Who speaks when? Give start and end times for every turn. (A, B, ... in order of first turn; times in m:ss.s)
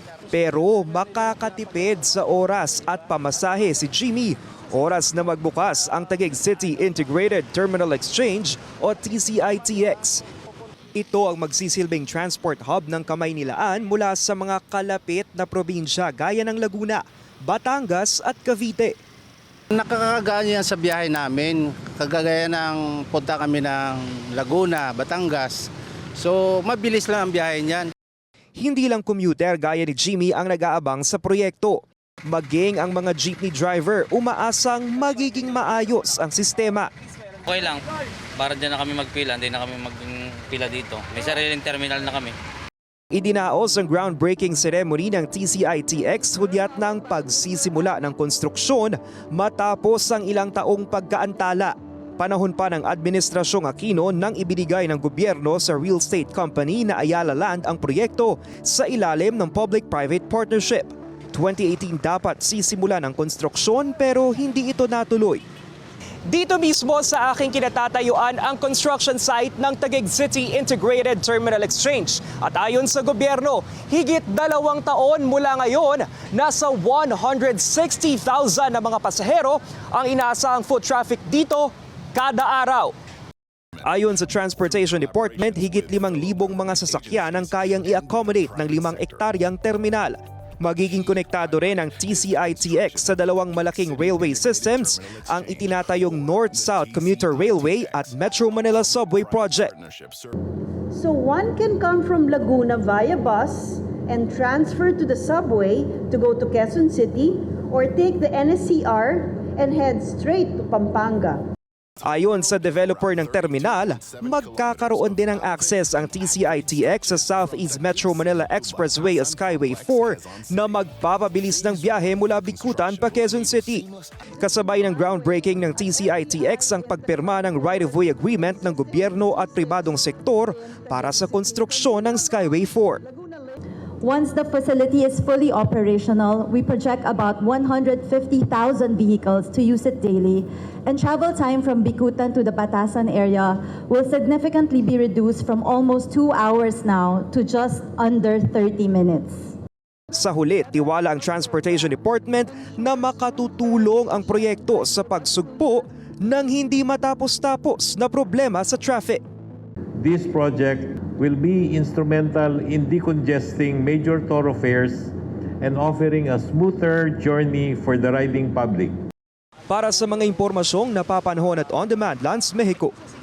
0:00.3-0:10.2 A
0:11.0-0:19.0 A
0:19.7-0:25.6 B
0:26.2-0:27.9 B
0:28.6-0:36.9 A
0:37.5-0:37.8 C
0:38.4-0:42.3 C
0:43.1-1:05.4 A
1:06.3-1:22.9 A
1:23.8-1:39.8 A
1:40.9-1:51.4 D
1:52.0-2:03.9 A
2:04.4-2:13.0 A
2:08.9-2:09.5 D
2:11.0-2:13.5 D
2:14.0-2:29.5 E
2:30.1-2:39.2 A
2:40.0-2:49.0 F
2:49.7-2:52.9 A